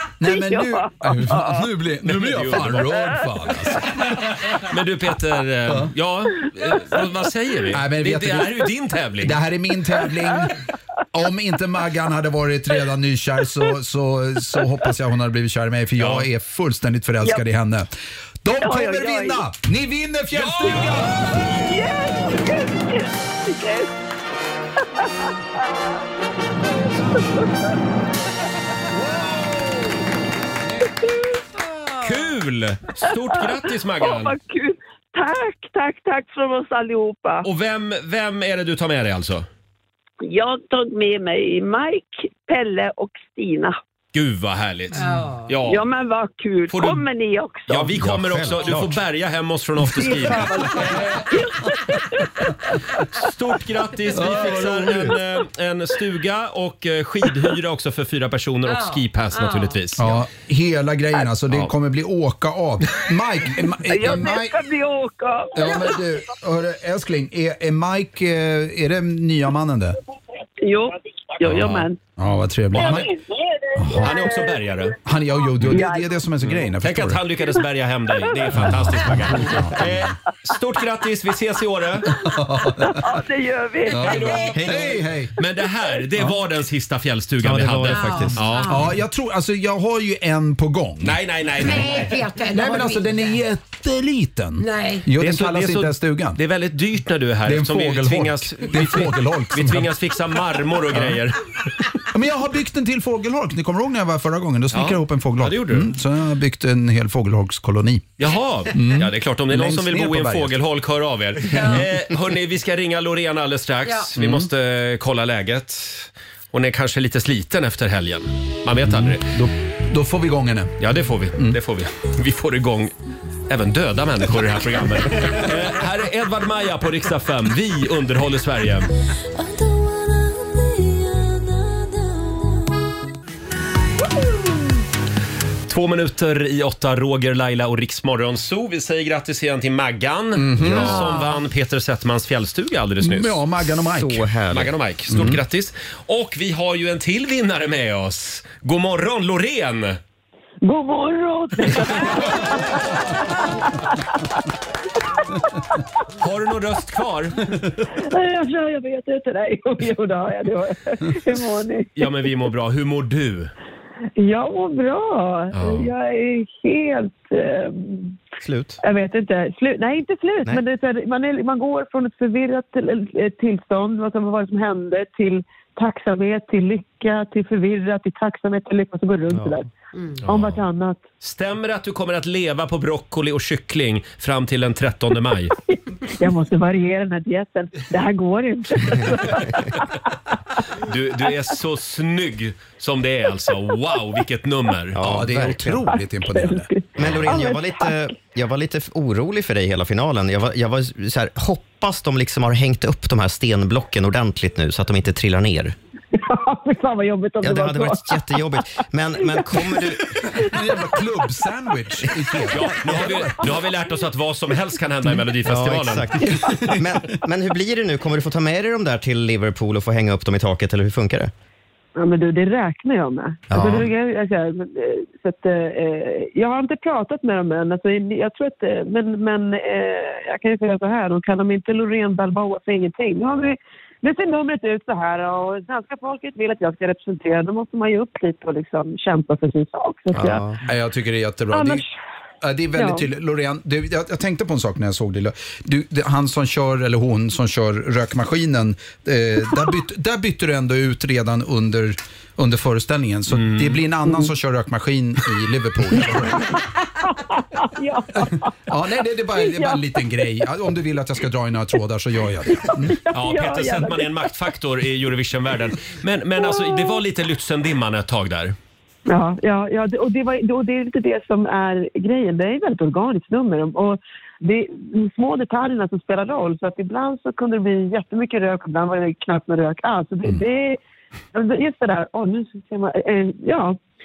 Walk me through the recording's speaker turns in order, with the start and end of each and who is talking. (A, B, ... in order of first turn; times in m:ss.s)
0:00.2-0:04.2 A
0:00.2-0:01.7 B
0:02.0-0:03.0 C
0:03.0-0:03.2 B
0:04.2-0:09.4 C
0:07.7-0:08.6 A
0:09.2-0:10.5 A
0:10.0-0:10.3 B
0:11.1-0:17.9 A
0:16.0-0:16.3 C
0:18.4-0:21.5 A
0:18.5-0:19.5 B
0:20.3-0:21.5 C
0:21.6-0:23.9 B
0:25.6-0:25.8 B
0:27.1-0:27.7 B
0:32.0-0:34.3 C
0:33.0-0:37.5 B
0:37.4-0:39.4 C
0:40.2-0:43.8 B
0:44.1-0:45.8 C
0:45.0-0:45.5 D
0:45.7-0:48.0 B
0:46.7-0:47.0 C
0:47.7-0:51.1 C
0:48.0-0:49.0 E
0:49.8-0:52.0 B
0:53.1-1:00.2 C
0:54.1-0:55.1 A
0:58.7-0:59.8 D
1:00.0-1:04.6 A
1:03.8-1:06.1 B
1:05.5-1:10.0 A
1:10.6-1:12.0 B
1:11.4-1:11.8 C
1:12.2-1:13.1 A
1:12.7-1:14.9 B
1:13.8-1:14.1 A
1:14.0-1:14.9 C
1:15.0-1:17.2 A
1:15.6-1:16.2 B
1:16.4-1:22.1 C
1:18.2-1:18.6 B
1:18.6-1:19.9 A
1:22.1-1:23.2 A
1:22.1-1:25.0 B
1:23.9-1:25.3 A
1:25.4-1:28.8 C
1:27.4-1:28.4 E
1:27.8-1:28.8 D
1:28.7-1:31.2 A
1:31.0-1:32.1 C
1:31.6-1:33.4 D
1:32.4-1:36.4 A
1:34.6-1:35.0 D
1:35.2-1:41.8 C
1:37.4-1:39.9 A
1:40.9-1:41.2 A
1:42.1-1:48.1 A
1:44.7-1:45.9 C
1:48.2-1:59.3 C
1:48.7-1:50.6 A
1:51.6-1:51.9 A
1:53.8-1:54.1 D
1:54.2-1:54.5 A
1:58.8-2:00.7 A
2:00.8-2:02.9 C
2:03.5-2:08.9 C
2:15.7-2:23.4 C
2:20.4-2:21.0 A
2:20.6-2:21.0 E
2:23.0-2:24.2 A
2:24.0-2:24.7 E
2:24.5-2:30.0 C
2:25.1-2:25.4 A
2:30.6-2:34.0 B
2:36.2-2:37.5 C
2:38.0-2:42.1 B
2:42.0-2:43.5 C
2:44.2-2:48.2 B
2:45.5-2:45.9 C
2:48.4-2:48.8 E
2:48.8-2:59.7 B
2:59.3-2:59.6 E
2:59.9-3:00.2 D
3:00.3-3:01.0 B
3:00.3-3:00.6 C
3:01.2-3:05.5 C
3:06.1-3:09.9 B
3:10.8-3:15.2 C
3:11.2-3:11.5 B
3:14.9-3:15.8 E
3:15.0-3:16.7 A
3:15.9-3:18.0 B
3:17.0-3:25.7 E
3:26.1-3:28.2 B
3:27.4-3:30.2 E
3:29.2-3:29.5 B
3:30.2-3:31.3 B
3:30.5-3:33.5 A
3:32.5-3:36.2 C
3:35.4-3:41.3 E
3:36.2-3:36.5 B
3:42.0-4:00.5 B
3:43.5-3:43.9 E
4:00.2-4:00.6 E
4:00.6-4:01.8 A
4:01.5-4:01.8 B
4:02.4-4:16.5 A
4:02.8-4:03.1 B
4:13.3-4:13.8 C
4:14.0-4:14.3 B
4:15.9-4:20.5 B
4:18.2-4:23.0 A
4:22.5-4:24.5 B
4:23.1-4:28.5 C
4:26.4-4:27.0 B
4:29.1-4:40.8 B
4:41.3-4:43.8 B